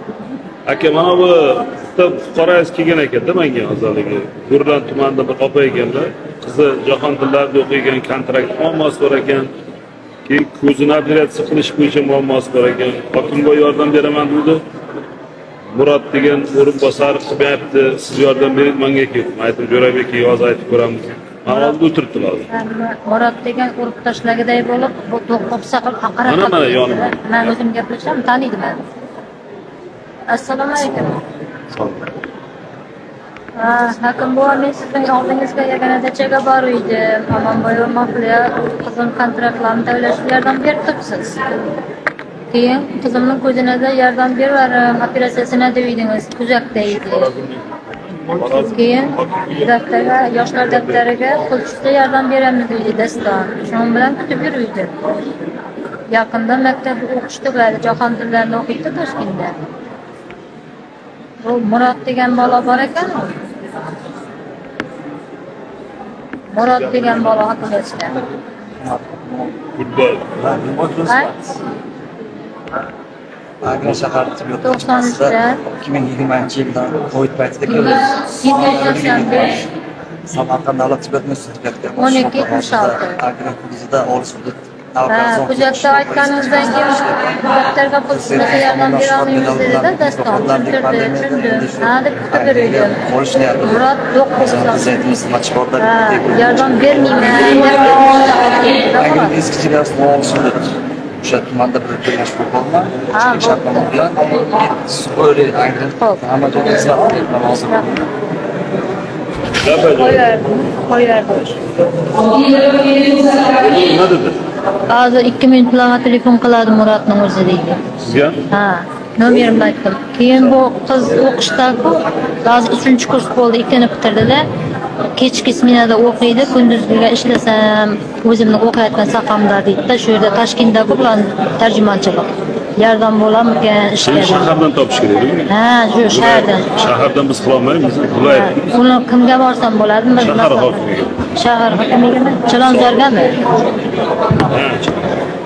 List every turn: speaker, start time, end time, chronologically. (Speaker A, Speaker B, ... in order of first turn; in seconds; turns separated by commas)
Speaker A: 0.6-9.5, Speaker A: 10.2-14.6, Speaker A: 15.7-22.5, Speaker B: 21.5-21.8, Speaker B: 22.5-28.8, Speaker A: 26.2-27.5, Speaker B: 30.3-31.2, Speaker A: 31.7-32.0, Speaker B: 33.5-41.6, Speaker B: 42.5-47.3, Speaker A: 46.8-47.7, Speaker A: 48.3-49.7, Speaker B: 48.5-54.9, Speaker A: 50.7-51.0, Speaker B: 56.1-59.6, Speaker B: 61.4-63.4, Speaker B: 66.5-68.2, Speaker A: 66.8-67.4, Speaker C: 68.8-69.6, Speaker A: 69.8-71.3, Speaker B: 71.0-71.3, Speaker C: 73.6-79.7, Speaker B: 74.6-75.6, Speaker B: 77.7-79.6, Speaker C: 80.2-87.3, Speaker B: 82.0-83.2, Speaker B: 85.1-93.0, Speaker C: 88.1-97.5, Speaker B: 93.6-95.0, Speaker B: 95.8-99.4, Speaker C: 98.9-108.0, Speaker B: 103.1-103.7, Speaker B: 107.7-107.9, Speaker A: 109.6-110.3, Speaker B: 109.8-111.6, Speaker A: 113.2-114.4, Speaker B: 114.9-117.8, Speaker A: 118.0-118.4, Speaker B: 118.5-124.4, Speaker B: 125.2-134.5, Speaker A: 134.0-135.5, Speaker B: 135.4-136.9, Speaker A: 136.1-138.7, Speaker B: 138.2-143.3, Speaker A: 140.2-141.3, Speaker A: 144.4-145.1